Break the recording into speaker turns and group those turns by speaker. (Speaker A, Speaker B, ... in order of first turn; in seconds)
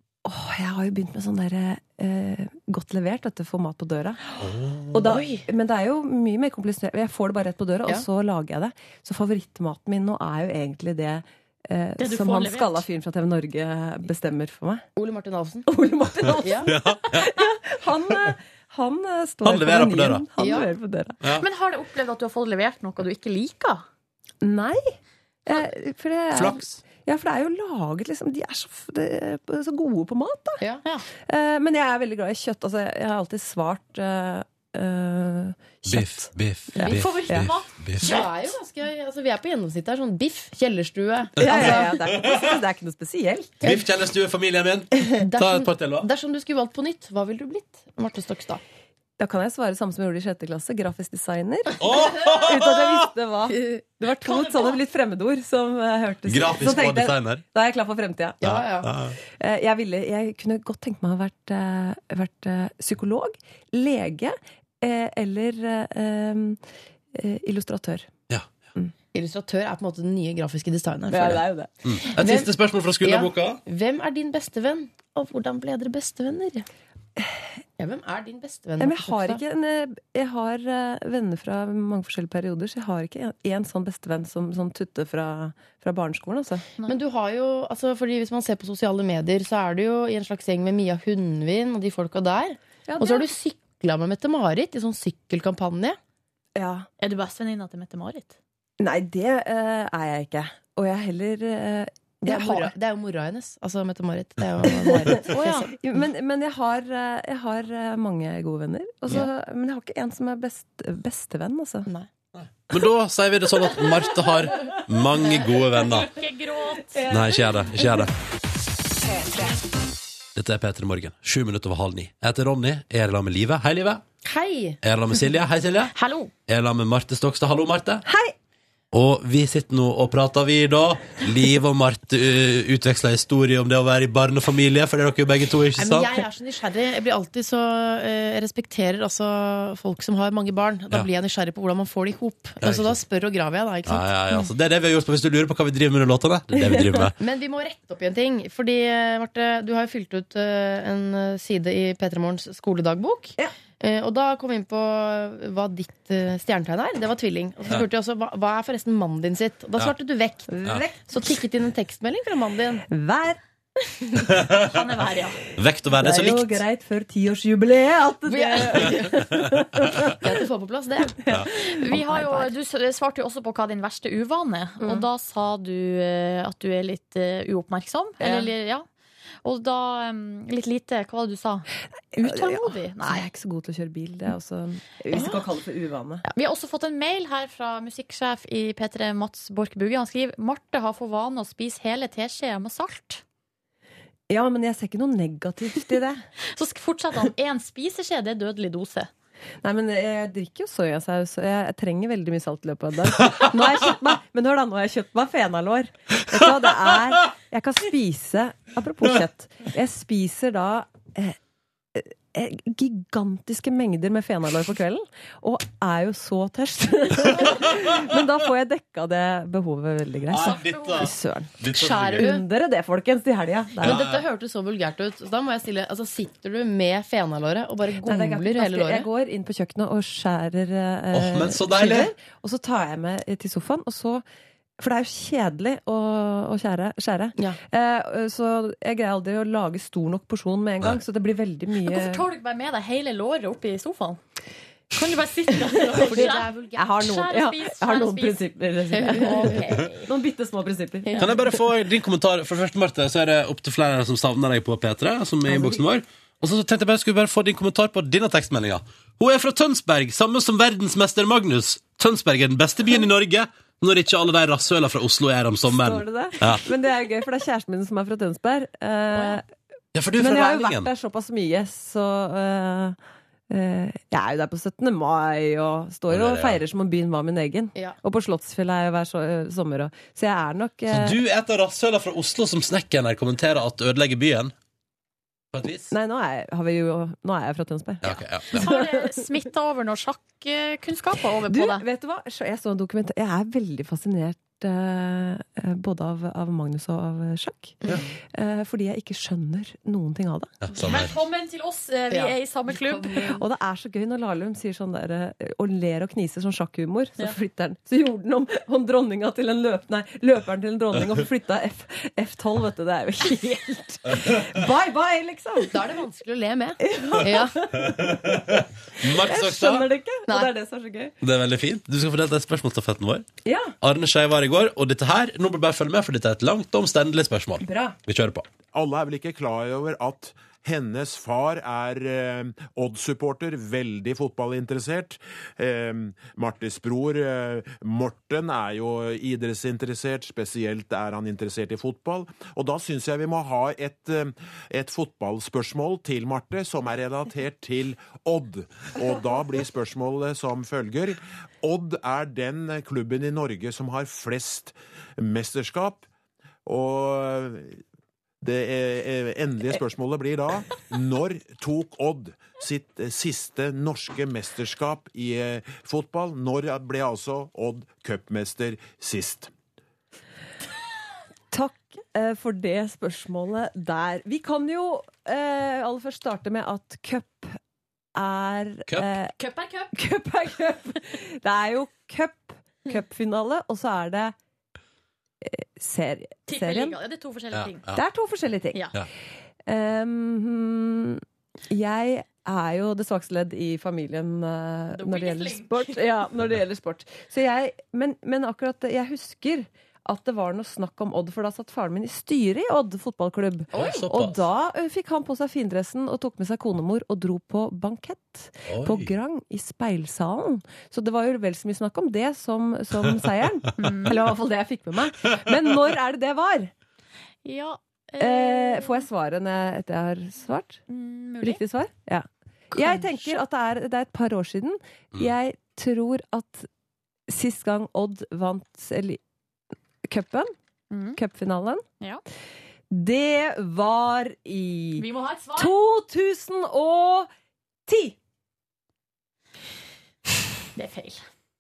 Speaker A: 0.2-4.2, 4.9-14.8, 15.7-21.2, 24.4-24.9, 25.5-30.6, 31.2-37.5, 41.4-43.6, 49.2-58.5, 59.2-66.6, 67.1-68.1, 71.1-71.7, 78.8-86.6, 92.9-93.3, 96.6-96.9, 98.8-102.7, 104.8-111.9, 128.1-128.3, 160.5-161.1, 162.9-163.4, 165.9-170.3, 171.2-171.6, 178.2-178.5, 182.2-186.2, 194.3-196.2, 199.6-211.4, 211.9-224.0, 228.0-234.2, 234.8-242.2, 246.8-251.5, 255.5-255.8, 265.7-269.5, 270.2-273.0, 273.5-281.2, 285.9-289.1, 291.5-300.5, 303.3-315.9, 316.8-318.5, 319.0-321.1, 323.4-323.8, 327.6-328.0, 371.5-377.6, 378.2-379.3, 379.9-384.4, 385.4-387.0, 387.9-388.9, 389.7-416.7, 418.2-420.8, 421.4-426.7, 427.3-429.2, 430.1-430.5, 431.1-431.8, 432.9-437.3, 437.9-438.2
Speaker B: 4.4-5.1, 16.7-17.3, 19.4-20.3, 26.3-26.8, 35.9-38.0, 41.4-42.5, 43.6-46.1, 51.8-53.1, 56.3-57.4, 58.4-59.1, 71.9-73.6, 112.4-116.1, 117.1-118.1, 120.3-124.0, 124.8-125.9, 126.5-128.0, 128.9-136.1, 142.6-143.0, 143.9-147.1, 164.2-164.7, 165.6-166.6, 220.3-222.3, 223.8-224.2, 231.1-232.1, 251.2-266.7, 269.9-270.9, 276.1-276.6, 280.9-284.5, 285.5-285.9, 288.0-288.7, 300.6-301.1, 318.2-319.9, 321.2-323.3, 323.8-328.4, 378.9-379.1, 387.5-388.0, 403.8-404.4, 408.7-409.1
Speaker C: 5.0-5.5, 15.0-15.7, 16.4-16.7, 20.4-20.7, 38.0-42.0, 45.2-48.6, 58.4-58.9, 69.1-71.5, 72.2-72.5, 73.0-76.7, 77.8-79.4, 86.9-96.0, 102.2-105.8, 124.2-124.8, 135.8-144.5, 147.2-160.5, 161.1-162.8, 168.3-169.2, 170.2-171.2, 171.9-172.5, 221.7-222.4, 223.8-229.1, 245.9-247.0, 249.0-249.7, 302.1-303.4, 315.6-317.6, 403.7-404.0
Speaker D: 12.0-12.9, 21.4-23.9, 36.8-38.5, 54.4-54.6, 97.0-98.4, 115.9-117.1, 125.9-126.3, 164.6-165.4, 171.7-178.8, 179.4-181.7, 182.2-183.3, 186.3-193.2, 196.5-199.1, 220.4-221.1, 241.8-244.2, 244.9-248.5, 249.0-250.1, 288.5-291.9, 300.8-303.3, 379.4-379.9, 386.5-387.8, 394.9-396.0, 413.8-414.2, 417.4-419.1, 420.9-421.6, 430.9-431.2, 435.0-435.8, 440.8-441.2
Speaker E: 328.7-356.1, 356.7-357.8, 358.4-369.5